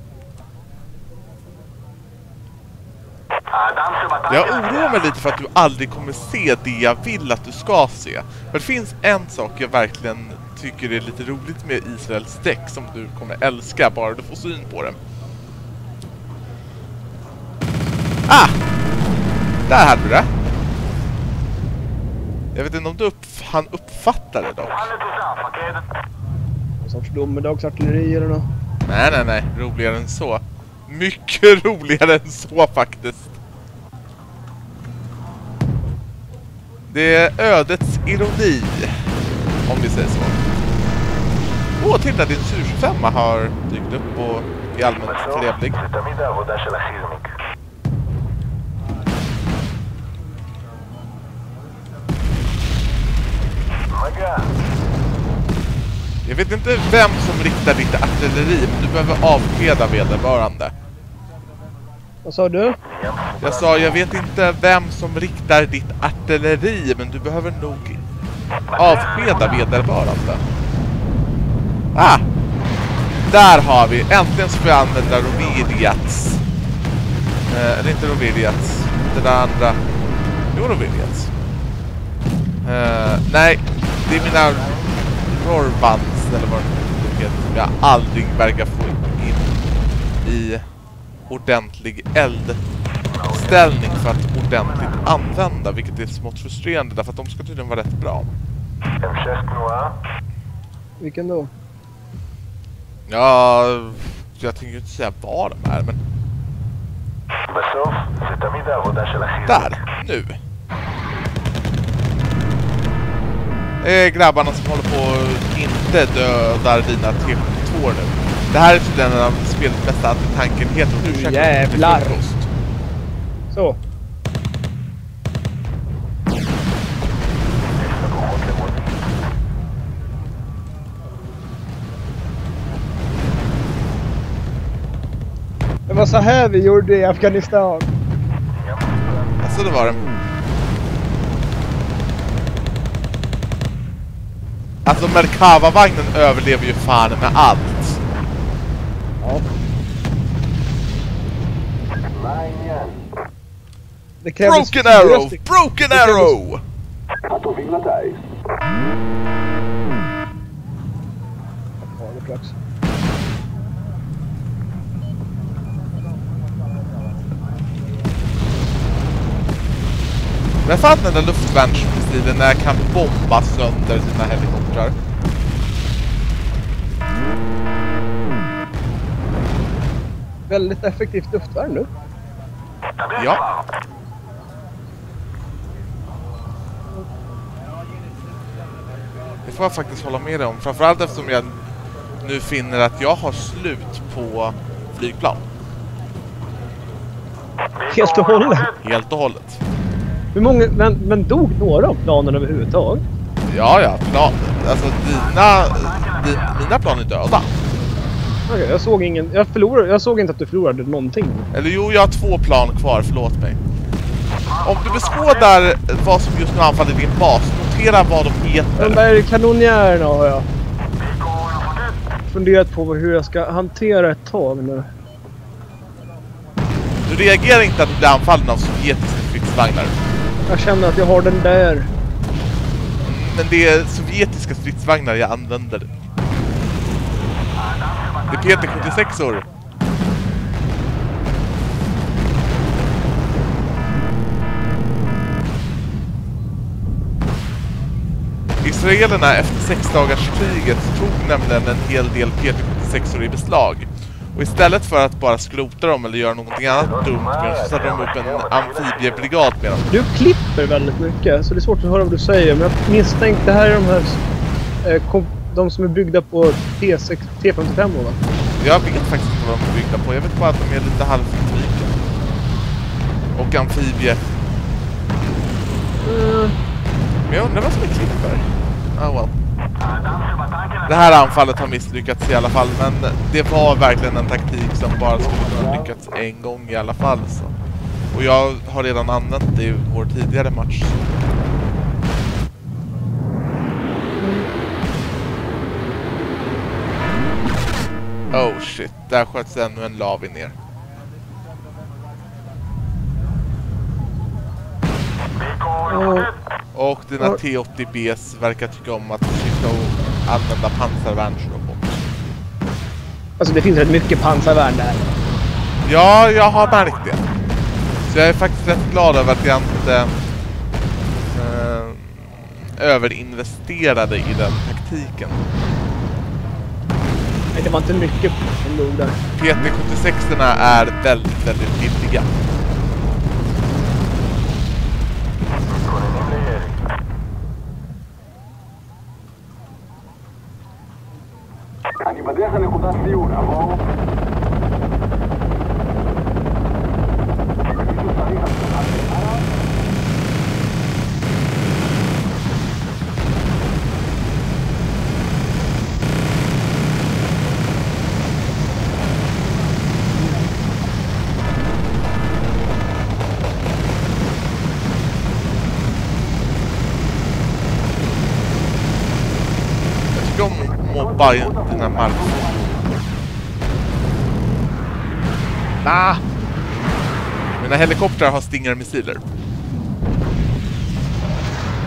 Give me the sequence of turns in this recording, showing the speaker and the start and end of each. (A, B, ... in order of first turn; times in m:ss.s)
0:03.5-0:05.0 A
0:04.3-0:15.0 B
0:18.3-0:18.6 B
0:19.7-0:20.3 B
0:22.5-0:24.9 B
0:24.8-0:25.8 A
0:26.8-0:28.5 C
0:28.8-0:33.3 B
0:36.9-0:39.1 B
0:39.6-0:40.4 B
0:41.8-0:45.8 B
0:45.0-0:47.3 A
0:53.9-0:54.5 A
0:56.2-1:00.7 B
1:02.2-1:02.8 C
1:02.8-1:03.9 A
1:03.4-1:08.0 B
1:08.7-1:09.6 A
1:08.7-1:10.4 B
1:11.9-1:12.2 B
1:13.3-1:16.4 B
1:17.5-1:19.8 B
1:20.5-1:21.3 B
1:22.6-1:24.7 B
1:24.1-1:25.0 A
1:25.2-1:29.5 B
1:30.2-1:30.6 B
1:31.3-1:32.6 B
1:33.1-1:35.1 A
1:33.2-1:38.3 B
1:39.0-1:40.0 A
1:41.0-1:41.5 C
1:43.1-1:46.0 B
1:47.5-1:49.8 A
1:49.4-1:50.4 B
1:53.8-2:02.5 B
2:01.0-2:02.2 C
2:03.5-2:03.8 C
2:07.6-2:09.0 A
2:15.9-2:17.9 C
2:18.5-2:19.7 A
2:19.4-2:20.0 B
2:24.8-2:28.0 B
2:29.2-2:29.4 C
2:32.1-2:33.0 A
2:34.2-2:36.3 C
2:34.4-2:36.6 B
2:37.3-2:38.2 A
2:41.8-2:42.6 C
2:50.6-2:54.9 B
3:00.5-3:01.9 C
3:03.0-3:03.6 A
3:03.1-3:03.5 B
3:09.4-3:11.6 B
3:12.2-3:15.4 B
3:17.8-3:18.8 A
3:17.9-3:18.7 C
3:18.8-3:19.6 B
3:20.3-3:23.0 C
3:23.5-3:27.5 B
3:25.2-3:26.5 A
3:28.5-3:31.5 C
3:31.5-3:33.6 B
3:34.5-3:35.4 A
3:34.6-3:39.0 B
3:38.8-3:40.5 C
3:41.0-3:42.0 A
3:42.3-3:44.9 C
3:47.0-3:50.0 B
3:50.5-3:51.9 C
3:53.0-3:55.9 B
3:57.6-3:59.0 A
3:58.3-3:59.4 B
4:08.6-4:19.9 B
4:16.7-4:19.3 A
4:19.9-4:24.2 C
4:24.8-4:28.2 C
4:28.6-4:31.9 B
4:33.3-4:34.2 B
4:36.0-4:36.6 C
4:37.3-4:39.3 B
4:39.8-4:41.0 A
4:40.8-4:47.5 B
4:45.1-4:45.9 A
4:48.1-4:51.0 B
4:54.2-4:54.5 C
4:58.3-5:00.5 B
5:05.4-5:06.3 A
5:05.9-5:06.3 C
5:06.7-5:12.1 B
5:13.4-5:15.0 C
5:15.8-5:17.2 B
5:18.1-5:20.1 B
5:21.3-5:25.4 B
5:27.5-5:29.2 C
5:29.3-5:32.3 B
5:35.7-5:36.8 A
5:42.0-5:43.8 A
5:47.6-5:49.5 A
6:10.1-6:12.3 B
6:10.7-6:12.9 A
6:15.8-6:16.2 C
6:17.6-6:19.2 B